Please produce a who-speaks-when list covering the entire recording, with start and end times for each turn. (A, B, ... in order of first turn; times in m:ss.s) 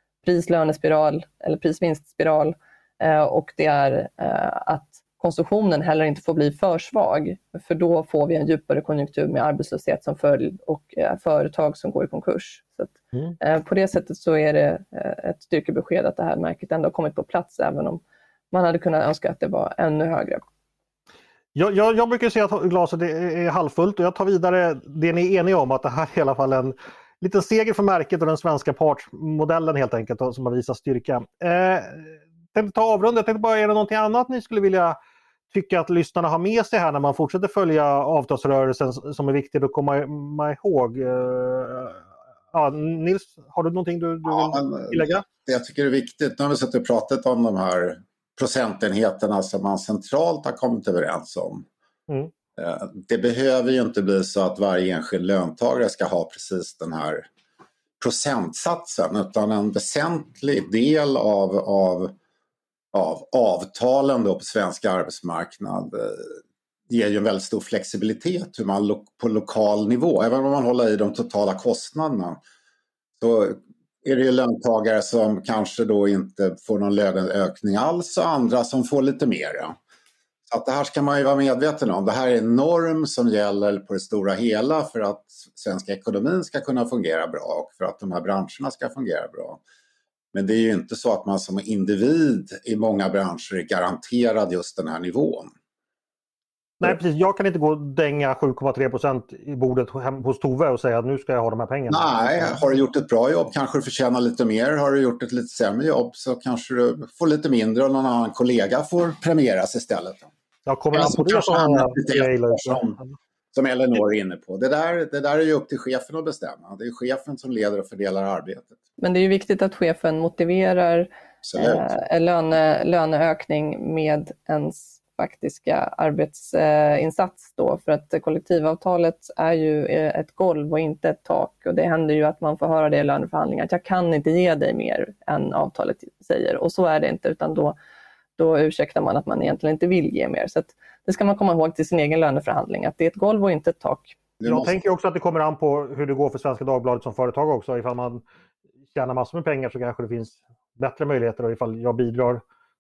0:00.2-0:18.0 A
0:18.5-0:20.4 A
0:21.6-0:35.0 B
0:35.5-0:45.3 B
0:44.3-0:51.7 C
0:52.6-0:57.3 C
0:58.0-1:02.2 C
1:02.9-1:12.4 C
1:13.2-1:19.8 C
1:20.5-1:29.6 C
1:30.3-1:35.5 C
1:36.8-1:42.6 B
1:41.9-1:50.3 C
1:50.7-1:53.1 B
1:50.9-1:53.0 C
1:53.5-1:58.8 C
1:59.0-2:17.8 A
2:01.4-2:01.9 C
2:18.4-2:24.2 A
2:24.4-2:24.8 C
2:24.4-2:28.2 B
2:28.9-2:32.4 B